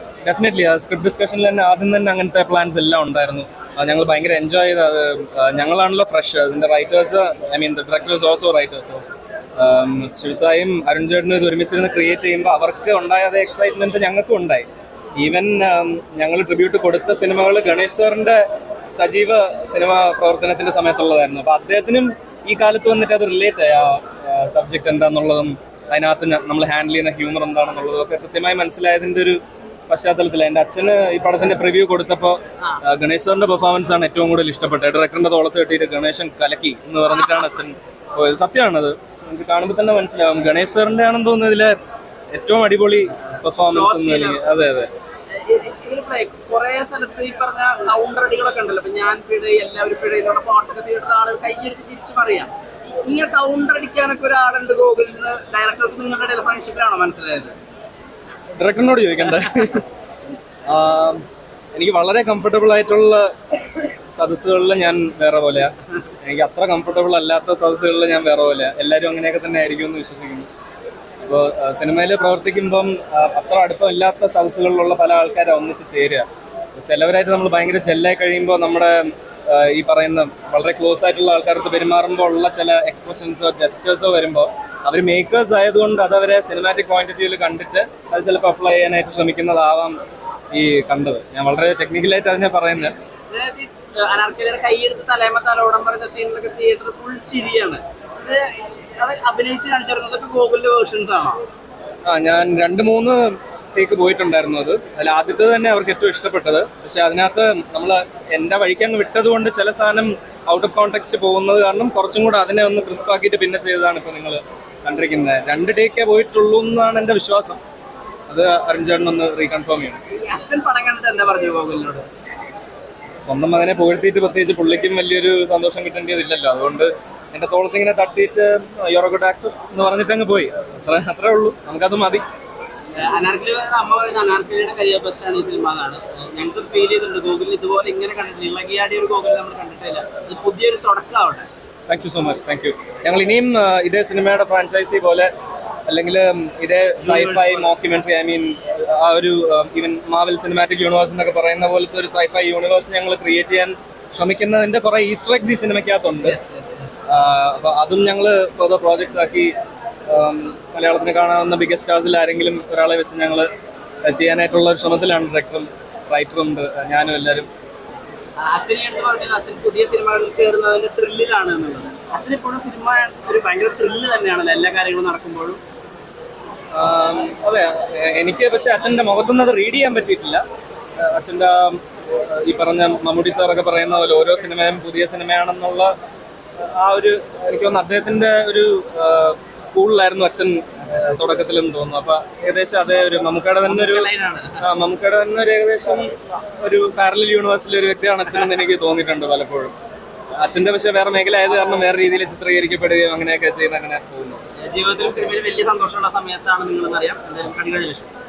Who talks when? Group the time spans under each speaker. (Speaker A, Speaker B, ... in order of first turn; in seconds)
Speaker A: 0.2-9.1, 9.6-41.8, 42.3-44.9, 58.6-59.9, 60.7-70.5, 71.2-90.0, 90.5-93.0, 102.1-117.6, 118.3-120.0, 123.2-132.2, 141.9-145.3, 145.9-156.4, 157.1-159.5, 160.1-163.5, 164.0-167.5, 176.7-180.4, 181.0-185.9, 186.6-194.1, 194.6-199.7, 200.4-204.4
Speaker B: 43.4-44.4, 45.3-57.6, 93.3-101.4, 120.1-122.1, 132.9-141.5, 147.0-147.7, 156.2-156.9, 168.4-175.6, 193.7-194.6, 204.6-208.1